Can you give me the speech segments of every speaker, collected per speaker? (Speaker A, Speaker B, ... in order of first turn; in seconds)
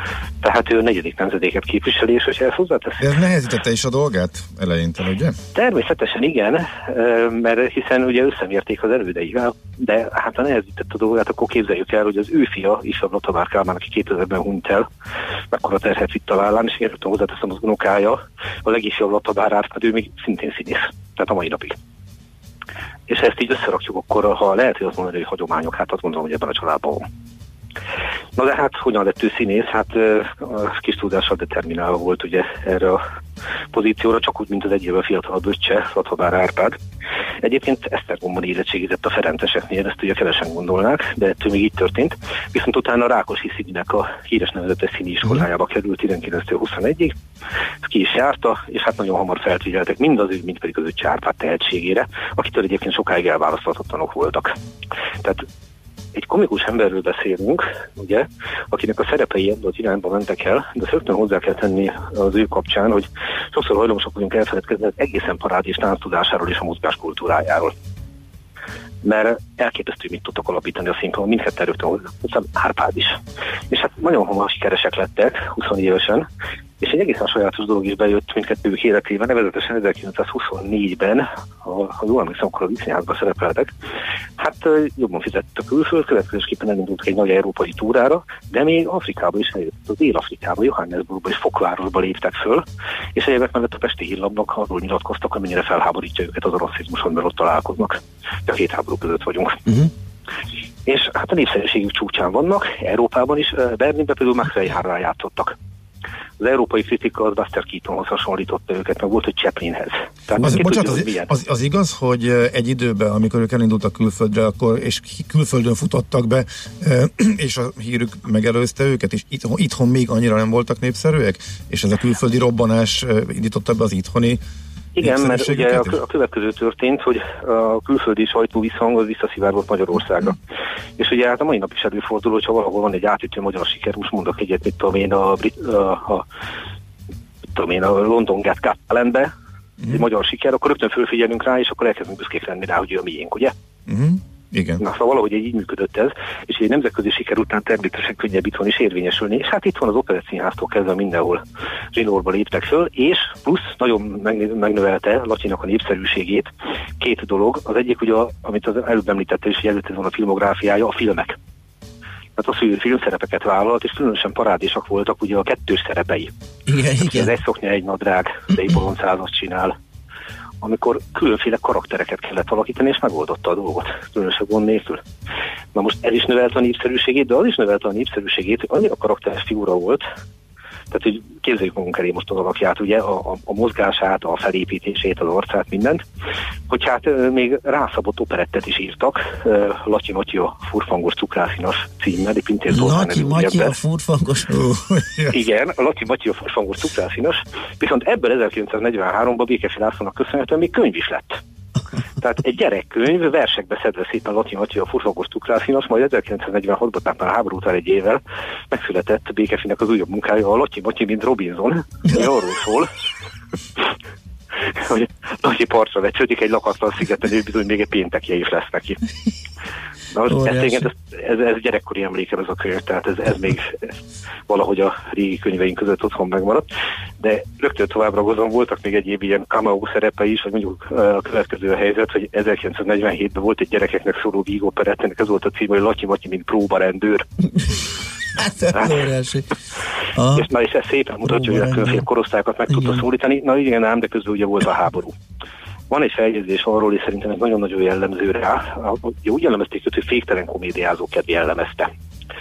Speaker A: 0.4-3.2, 5.5-14.9, 15.5-21.8, 23.1-27.0, 28.4-33.0, 33.7-36.7, 37.4-47.1, 47.8-54.5, 56.1-67.7, 69.0-73.2, 73.7-76.2, 76.8-83.7, 84.4-99.6, 100.8-105.5, 106.4-111.3, 125.0-130.3, 131.0-136.2, 137.5-139.3, 139.9-143.5, 144.8-151.4, 151.9-156.5, 157.0-161.4, 162.4-166.3, 167.0-169.7, 170.6-175.0, 175.7-180.0, 180.9-186.0, 186.7-193.7, 195.3-201.4, 202.2-212.9, 214.8-219.0, 220.1-223.9, 224.5-226.7, 227.2-237.2, 240.3-245.1, 245.9-251.9
Speaker B: 3.0-5.4, 110.4-124.4, 125.0-126.0, 143.9-144.8, 194.5-195.4
Speaker C: 166.7-167.3, 192.7-194.6, 220.3-220.9, 238.3-239.4, 240.1-240.5, 241.2-242.0, 242.7-243.0